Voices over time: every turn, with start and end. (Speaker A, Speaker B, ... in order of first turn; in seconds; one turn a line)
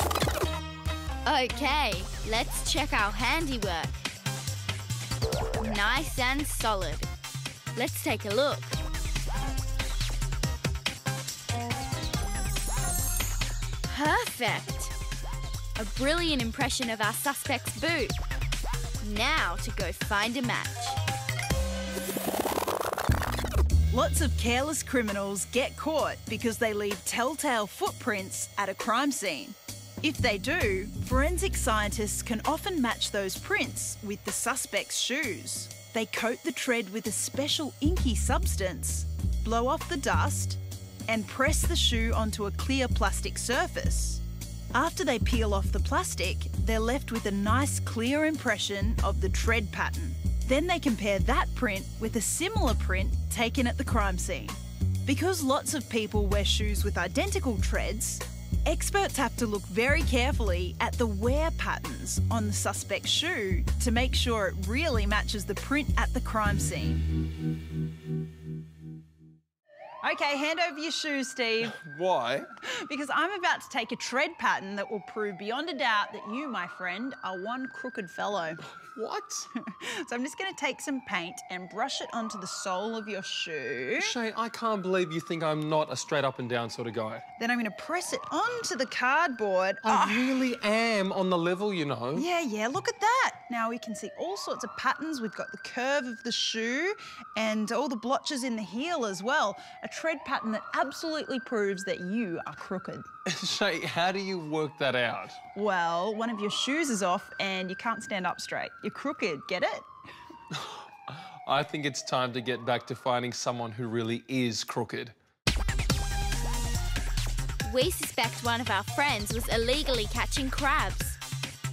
Speaker A: 1.2-4.1
Speaker A: 5.6-7.1
Speaker A: 7.8-8.8
Speaker A: 13.8-14.9
Speaker A: 15.8-18.2
Speaker A: 19.0-21.0
Speaker B: 23.9-44.2
Speaker B: 44.7-67.1
Speaker B: 70.0-71.8
Speaker C: 71.6-72.5
Speaker B: 72.6-78.6
Speaker C: 78.7-79.5
Speaker B: 79.6-84.2
Speaker C: 84.0-87.2
Speaker B: 87.4-90.5
Speaker C: 89.8-92.3
Speaker B: 92.1-103.1
Speaker C: 103.3-105.4
Speaker B: 105.5-109.9
Speaker C: 110.5-115.2
Speaker A: 117.6-121.2